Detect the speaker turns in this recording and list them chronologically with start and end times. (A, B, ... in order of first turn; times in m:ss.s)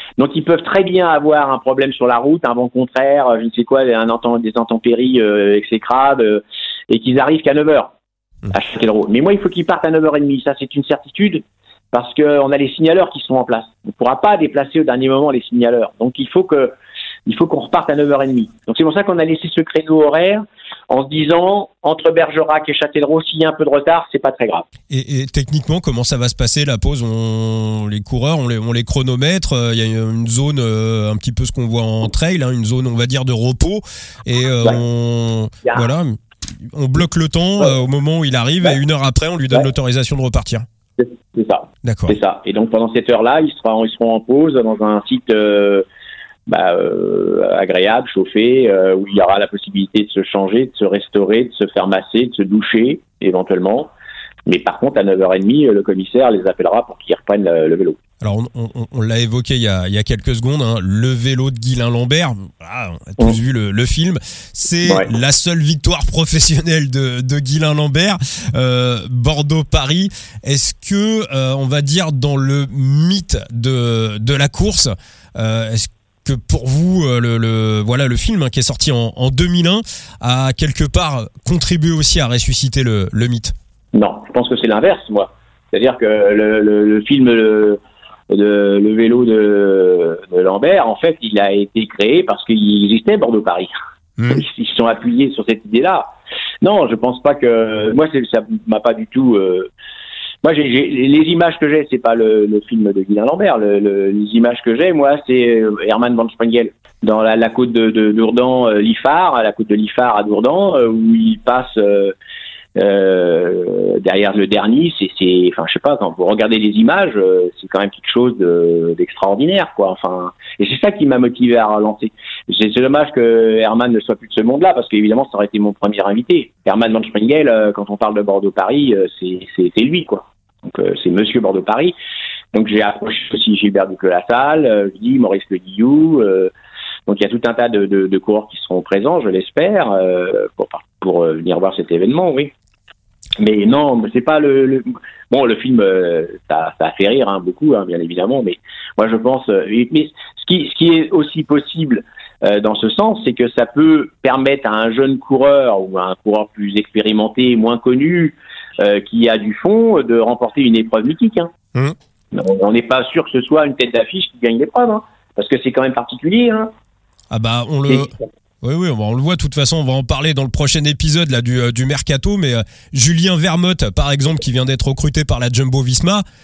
0:00.2-0:07.9 A
0:08.5-0:16.7 A
0:17.2-0:24.7 A
0:24.9-0:40.6 B
0:41.0-0:45.8 A
0:41.8-0:42.2 B
0:46.5-0:53.9 A
0:54.4-0:58.0 A
0:58.2-1:23.5 B
1:23.9-1:27.8 A
1:28.3-1:33.7 A
1:34.2-1:34.4 B
1:34.3-1:39.7 A
1:40.4-1:52.1 A
1:52.7-2:11.9 A
2:12.5-2:16.5 A
2:17.1-2:22.5 A
2:23.4-2:41.5 A
2:42.3-2:46.7 A
2:47.3-2:56.2 B